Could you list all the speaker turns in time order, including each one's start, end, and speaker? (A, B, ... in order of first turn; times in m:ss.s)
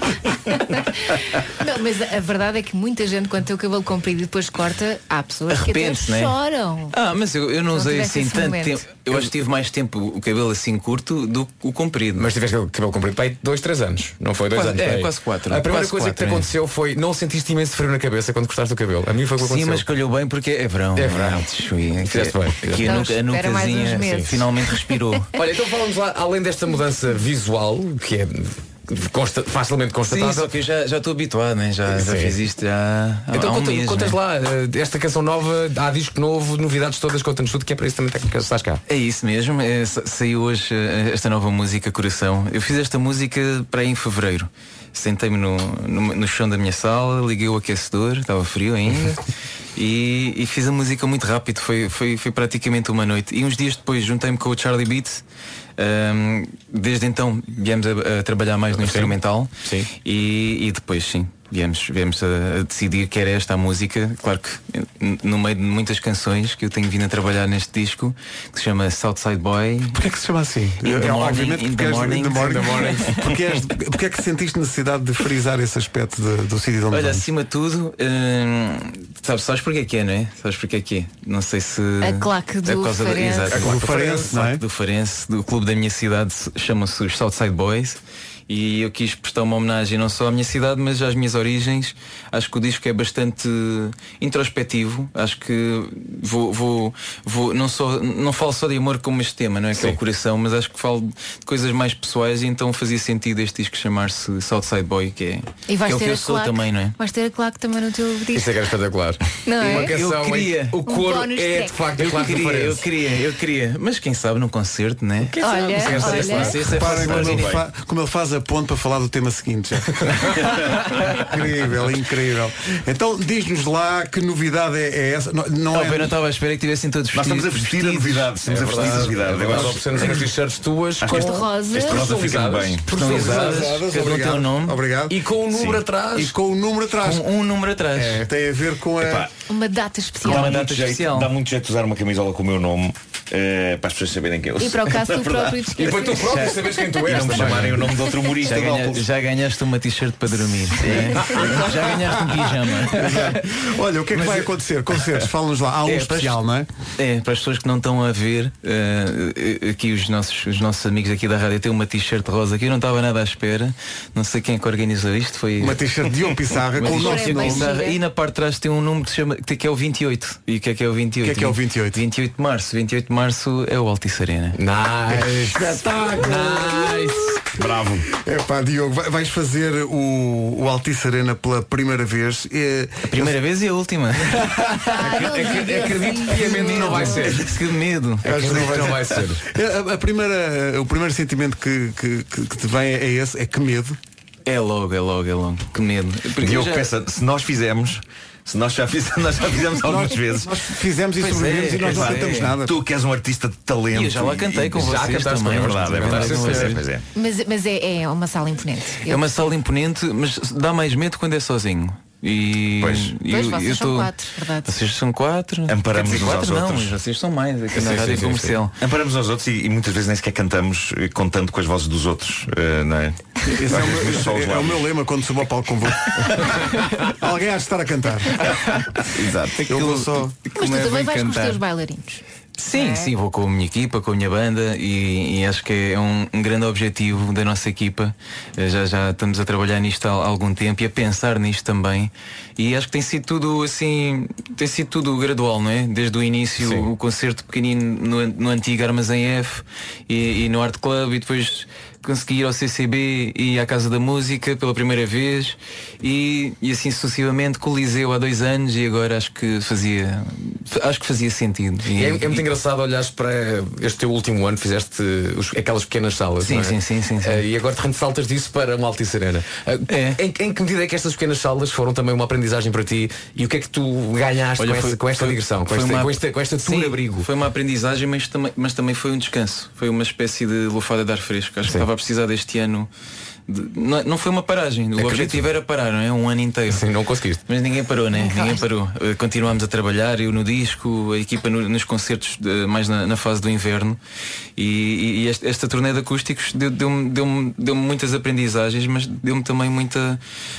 0:00.6-0:07.0 A
0:05.5-0:06.4 B
0:06.9-0:12.3 B
0:07.7-0:08.8 A
0:12.2-0:19.8 C
0:14.5-0:16.5 B
0:19.4-0:25.3 B
0:21.0-0:21.5 C
0:22.0-0:23.1 C
0:22.8-0:25.0 A
0:24.1-0:24.4 C
0:25.4-0:30.5 C
0:30.1-0:34.2 B
0:31.9-0:32.4 C
0:33.3-0:38.8 C
0:38.9-0:49.2 B
0:49.8-0:55.2 B
0:55.8-1:10.0 B
0:58.7-0:59.9 C
1:09.9-1:17.3 D
1:10.8-1:13.2 B
1:12.4-1:13.1 C
1:16.9-1:47.0 B
1:22.0-1:23.5 A
1:23.5-1:24.4 C
1:23.5-1:24.6 D
1:45.7-1:48.5 A
1:48.3-1:52.8 C
1:49.5-1:49.9 A
1:49.6-1:50.8 B
1:50.9-1:51.8 A
1:52.0-1:57.6 B
1:55.2-1:56.8 C
1:55.4-1:56.6 A
1:56.6-2:06.2 D
1:56.8-1:57.6 E
2:05.7-2:08.4 B
2:07.1-2:10.3 E
2:08.4-2:13.7 C
2:08.8-2:09.1 D
2:11.0-2:12.9 E
2:11.1-2:12.1 A
2:12.9-2:14.8 B
2:12.9-2:15.2 D
2:15.1-2:16.3 C
2:15.5-2:15.8 E
2:16.2-2:17.3 D
2:17.0-2:18.2 B
2:17.9-2:19.3 D
2:19.0-2:19.3 E
2:19.5-2:20.5 A
2:20.3-2:25.7 E
2:20.3-2:21.3 B
2:24.6-2:26.7 A
2:25.8-2:27.9 C
2:26.3-2:26.6 B
2:27.0-2:29.1 E
2:27.1-2:27.8 B
2:28.4-2:33.4 B
2:30.8-2:31.5 E
2:31.2-2:31.6 C
2:31.3-2:31.5 D
2:32.8-2:36.7 D
2:34.1-2:34.5 B
2:35.9-2:36.3 B
2:37.0-2:45.8 B
2:45.6-2:47.7 D
2:46.7-2:54.6 B
2:46.8-2:48.0 A
2:51.2-2:52.0 D
2:54.6-2:57.4 C
2:55.1-3:03.4 D
2:57.6-2:58.1 E
3:03.1-3:08.8 B
3:04.6-3:07.5 C
3:04.9-3:07.3 A
3:08.2-3:09.4 C
3:08.2-3:14.0 D
3:14.4-3:16.9 B
3:16.4-3:20.5 E
3:19.8-3:22.8 D
3:21.2-3:22.6 B
3:21.8-3:27.0 E
3:23.9-3:26.8 B
3:24.8-3:26.8 C
3:27.1-3:29.4 A
3:29.0-3:34.1 B
3:32.8-3:33.2 E
3:33.3-3:34.8 A
3:34.7-3:38.7 B
3:35.7-3:37.0 E
3:37.7-3:38.6 C
3:38.8-3:44.8 E
3:43.5-3:48.8 D
3:49.2-3:49.6 E
3:49.5-3:51.6 B
3:49.6-3:50.4 D
3:50.6-3:53.1 A
3:52.6-4:22.5 B
4:06.6-4:06.9 C
4:22.0-4:37.3 C
4:26.4-4:27.4 B
4:29.9-4:30.2 B
4:34.6-4:42.9 B
4:43.5-4:46.9 B
4:45.0-4:45.4 C
4:46.7-4:47.4 C
4:47.5-4:54.0 B
4:54.6-5:00.2 B